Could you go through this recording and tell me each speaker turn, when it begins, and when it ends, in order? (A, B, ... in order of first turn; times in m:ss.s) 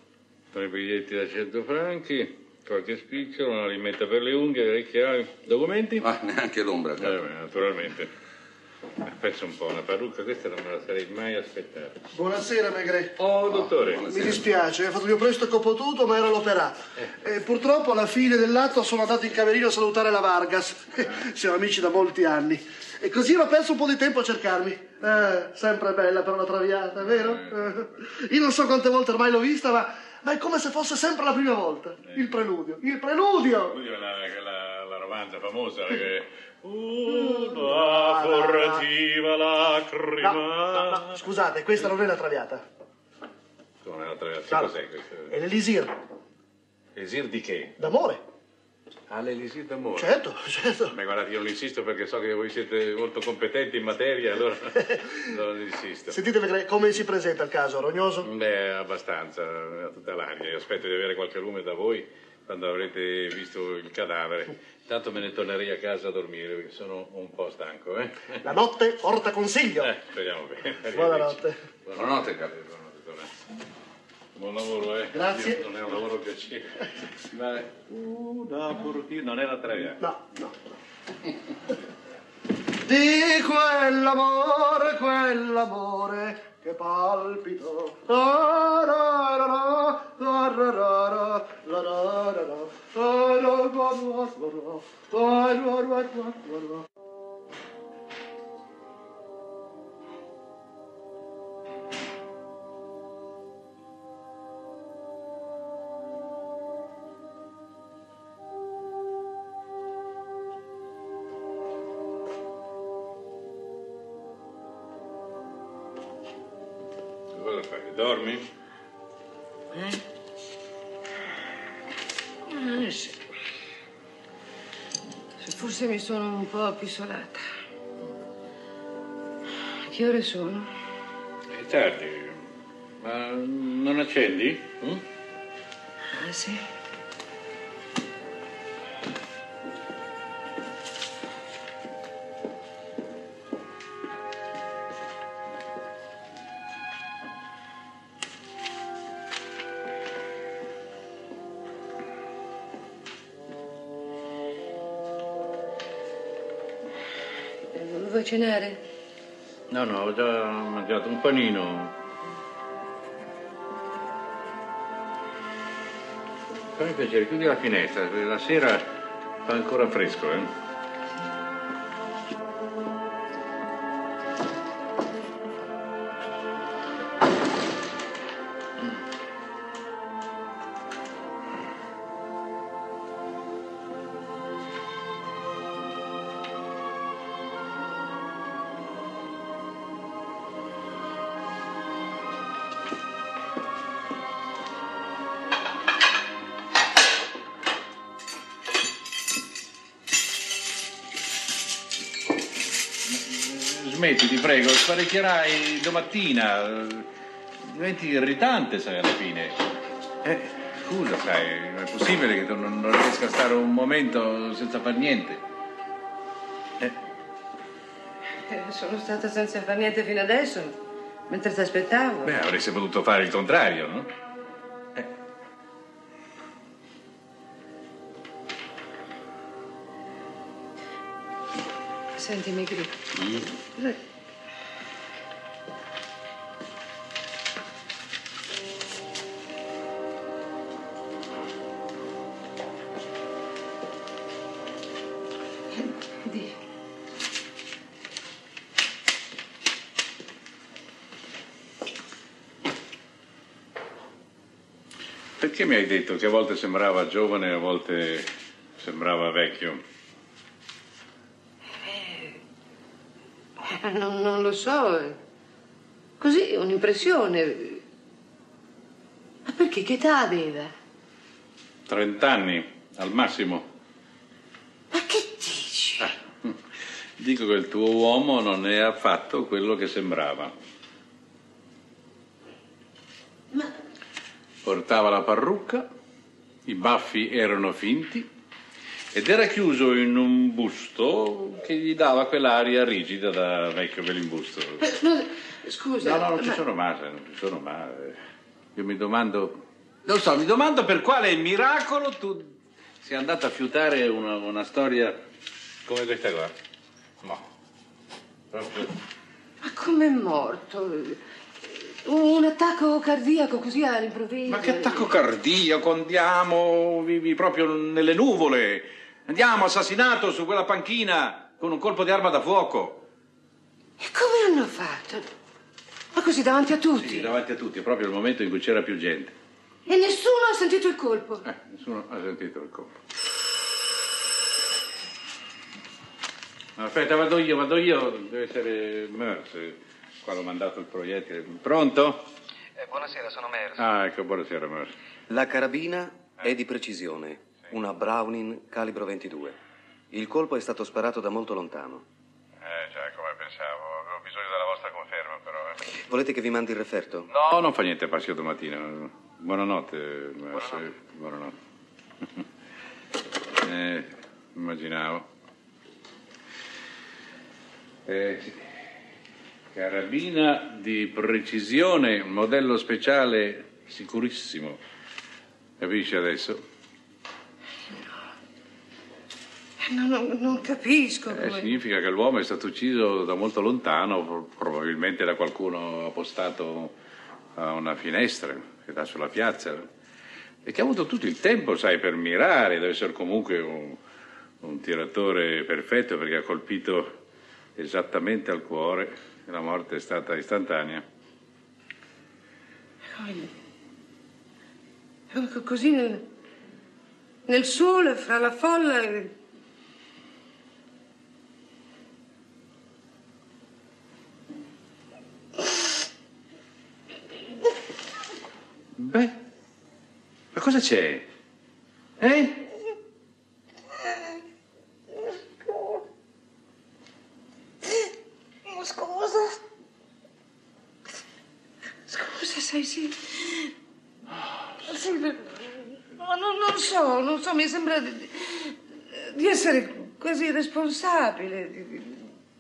0:00.5-0:06.1 A
0:06.0-0:07.2 B
0:07.0-0:08.1 A
0:09.0-0:12.0 A
0:12.2-0:33.8 C
0:13.2-0:14.2 A
0:13.9-0:14.3 B
0:27.1-0:27.7 A
0:33.6-0:41.2 A
0:37.1-0:38.8 C
0:40.2-0:42.6 C
0:43.8-0:45.3 A
0:45.3-0:45.9 C
0:47.0-0:47.8 A
0:47.8-0:48.2 C
0:49.1-0:50.2 A
0:50.0-0:50.9 C
0:50.9-0:56.2 A
0:56.1-0:58.3 C
0:58.2-1:08.4 A
1:08.4-1:09.9 C
1:09.8-1:13.3 A
1:10.9-1:11.6 C
1:12.0-1:12.4 B
1:14.4-1:20.0 A
1:15.1-1:15.6 C
1:20.0-1:20.5 C
1:22.9-1:36.9 C
1:57.3-1:58.5 A
1:59.7-2:00.0 D
2:02.5-2:03.2 D
2:05.4-2:07.5 D
2:09.8-2:10.7 D
2:11.5-2:12.4 A
2:13.0-2:15.0 A
2:16.1-2:16.6 D
2:37.7-2:38.8 D
2:39.7-2:41.9 A
2:46.8-2:48.8 A
2:49.4-2:50.5 A
3:23.1-3:27.1 A
3:27.6-3:29.6 A
3:30.2-3:35.4 A
3:38.5-3:42.4 D
3:42.2-3:44.1 A
3:52.2-3:53.0 D
4:06.3-4:06.5 D
4:15.4-4:19.8 A
4:21.8-4:22.4 D
4:23.6-4:25.2 D
4:26.2-4:27.8 D
4:29.5-4:30.7 D
4:31.9-4:33.7 A
4:34.9-4:36.1 D
4:36.0-4:36.6 A
4:37.2-4:40.5 A
4:44.6-4:45.9 A
4:46.7-4:48.3 A
4:49.1-4:54.9 A
4:54.8-4:56.6 D
4:56.0-4:58.2 A
4:58.8-5:05.2 A
5:05.9-5:06.5 A
5:08.5-5:08.9 A
5:09.6-5:15.1 D
5:14.5-5:23.1 A
5:24.0-5:25.3 D
5:26.1-5:27.3 D
5:27.0-5:29.3 A
5:29.9-5:31.5 D
5:31.4-5:32.9 A
5:36.8-5:42.3 A
5:42.8-5:43.7 E
5:43.8-5:44.9 A
5:45.3-5:49.6 E
5:50.1-5:52.0 E
5:52.6-5:55.8 A
5:55.9-5:57.3 E
5:57.3-6:01.6 A
6:03.6-6:05.3 A
6:08.1-6:08.8 A
6:09.7-6:14.8 A
6:15.8-6:16.6 A
6:19.8-6:21.7 D
6:21.3-6:26.9 A
6:27.6-6:29.9 A
6:30.6-6:34.0 A
6:34.6-6:37.2 A
6:37.8-6:41.0 A
6:43.0-6:43.5 D
6:45.3-6:46.2 D
6:47.5-6:49.3 D
6:59.0-6:59.3 A
7:00.5-7:01.3 A
7:02.2-7:02.6 A
7:05.2-7:06.0 D
7:07.8-7:08.1 D
7:08.7-7:09.6 D
7:12.1-7:13.7 D
7:14.8-7:22.2 D